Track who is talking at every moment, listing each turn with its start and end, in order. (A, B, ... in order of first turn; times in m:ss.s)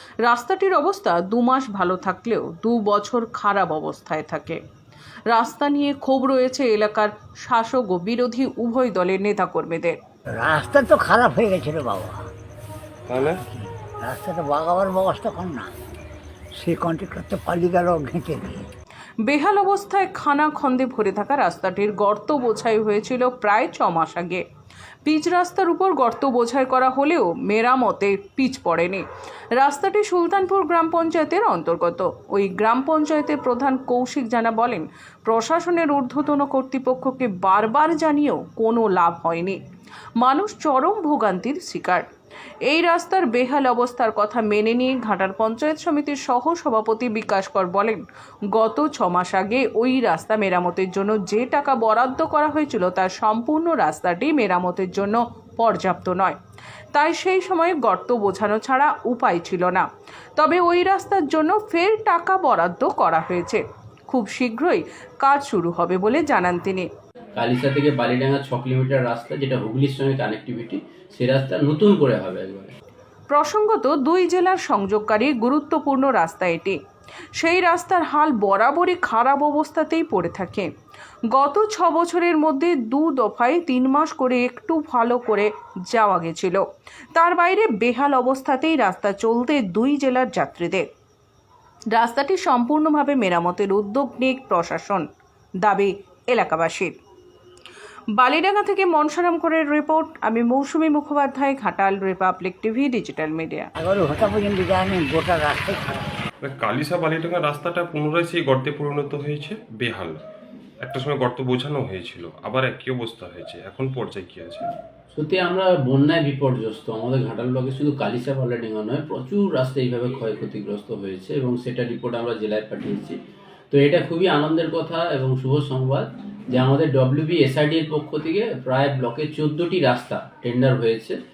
0:00.2-0:04.6 A
0:05.3-0:10.0 A
0:10.3-0:12.2 B
0:13.1-0:13.4 C
0:13.2-0:15.7 B
0:16.6-0:18.7 B
0:19.3-0:24.4 A
0:25.0-0:29.0 A
0:29.6-0:39.6 A
0:40.2-0:42.0 A
0:42.7-0:56.4 A
0:56.9-0:59.8 A
1:00.4-1:06.9 A
1:07.4-1:12.7 D
1:13.3-1:16.8 A
1:17.4-1:20.7 A
1:21.3-1:26.6 A
1:27.1-1:30.9 A
1:31.9-1:35.0 A
1:35.6-1:37.0 A
1:38.2-1:43.7 A
1:43.8-1:46.2 B
1:46.4-1:50.2 C
1:50.8-1:54.7 C
1:55.1-2:03.2 D
2:03.7-2:11.2 D